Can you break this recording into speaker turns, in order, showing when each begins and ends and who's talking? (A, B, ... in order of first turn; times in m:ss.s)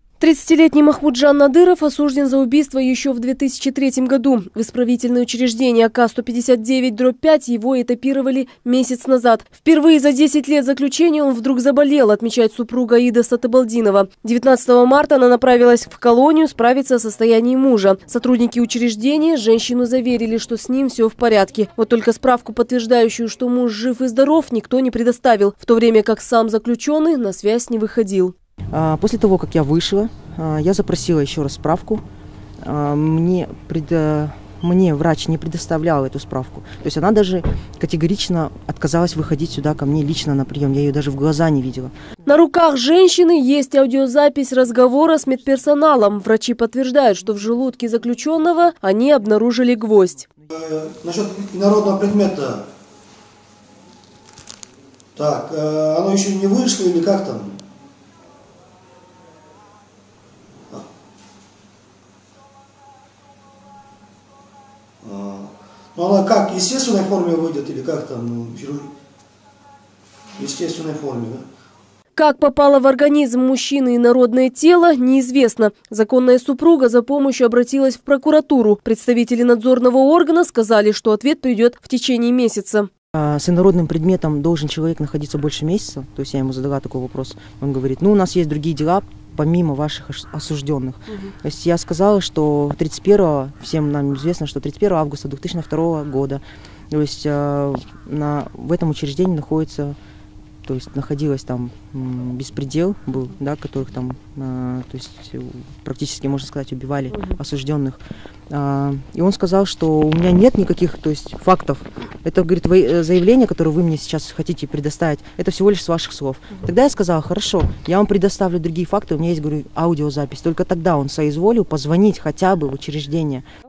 0:00.2-0:28.3 A
0:28.7-0:32.0 B
0:32.6-0:41.9 B
0:42.2-0:50.2 A
0:50.5-0:52.7 C
0:55.2-0:57.6 C
1:05.0-1:08.9 C
1:10.3-1:11.4 C
1:12.2-1:22.9 A
1:23.1-1:40.0 B
1:40.6-2:03.4 B